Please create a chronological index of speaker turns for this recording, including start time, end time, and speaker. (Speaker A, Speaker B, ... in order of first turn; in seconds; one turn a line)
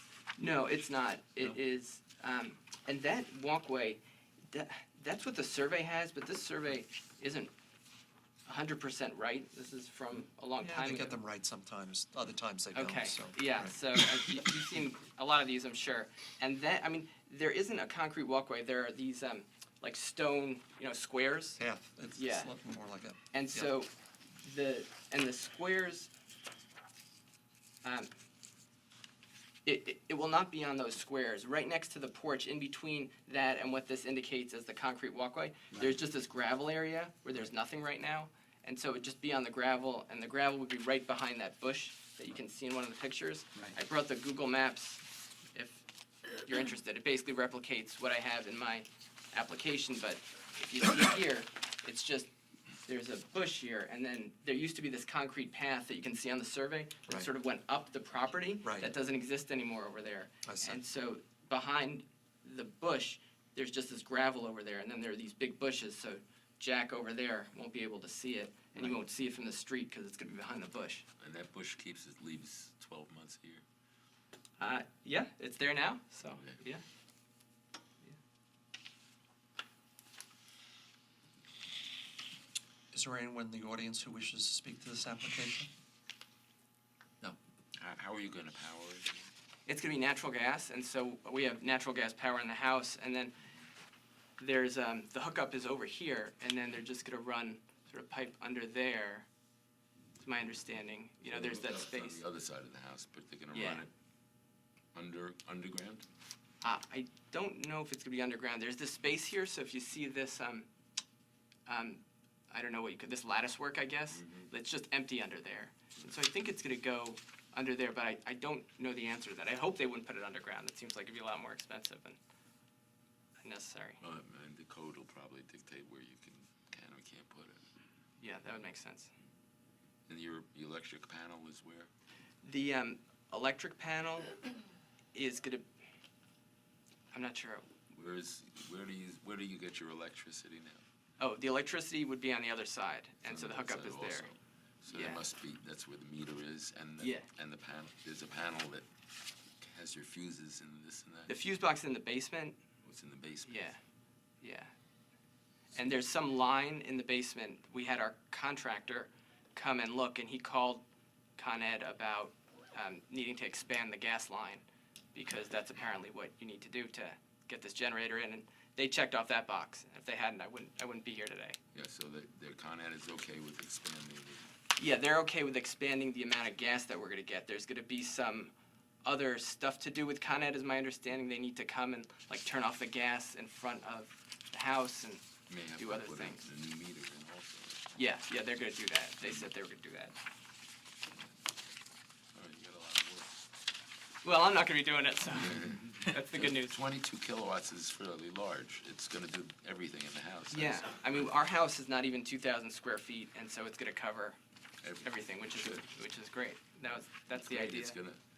Speaker A: 0.4-7.5
Speaker A: 8.4-11.1
Speaker B: 10.6-14.5
Speaker A: 12.7-21.6
Speaker B: 21.6-23.7
Speaker A: 22.1-22.5
Speaker A: 23.3-26.1
Speaker A: 27.8-28.1
Speaker A: 29.6-52.3
Speaker A: 52.9-71.0
Speaker B: 58.6-58.9
Speaker B: 60.4-60.8
Speaker C: 71.2-73.6
Speaker A: 74.6-76.8
Speaker B: 82.9-85.7
Speaker C: 87.7-89.3
Speaker A: 89.7-93.3
Speaker A: 94.4-99.3
Speaker A: 100.2-102.2
Speaker C: 101.2-103.9
Speaker A: 103.5-103.9
Speaker C: 104.9-106.0
Speaker A: 106.6-110.7
Speaker A: 111.7-122.2
Speaker C: 114.1-114.5
Speaker A: 123.4-124.0
Speaker C: 124.0-127.6
Speaker A: 128.2-129.1
Speaker C: 130.1-131.9
Speaker A: 132.4-134.4
Speaker A: 135.1-135.7
Speaker A: 137.1-137.7
Speaker C: 137.9-140.8
Speaker A: 141.2-144.3
Speaker C: 143.2-148.9
Speaker A: 144.9-145.2
Speaker A: 147.0-147.3
Speaker C: 149.6-151.3
Speaker A: 151.3-152.6
Speaker C: 152.8-153.7
Speaker A: 153.4-153.8
Speaker A: 154.4-154.7
Speaker A: 155.7-160.8
Speaker A: 161.4-171.6
Speaker C: 171.7-174.5
Speaker A: 174.8-178.5
Speaker A: 179.0-185.2
Speaker C: 185.5-187.8
Speaker A: 185.8-186.4
Speaker A: 187.9-190.2
Speaker C: 189.2-189.5
Speaker C: 192.3-193.3
Speaker A: 194.2-196.8
Speaker C: 195.3-201.3
Speaker A: 200.5-204.4
Speaker C: 204.8-205.1
Speaker A: 205.0-208.0
Speaker C: 207.3-208.2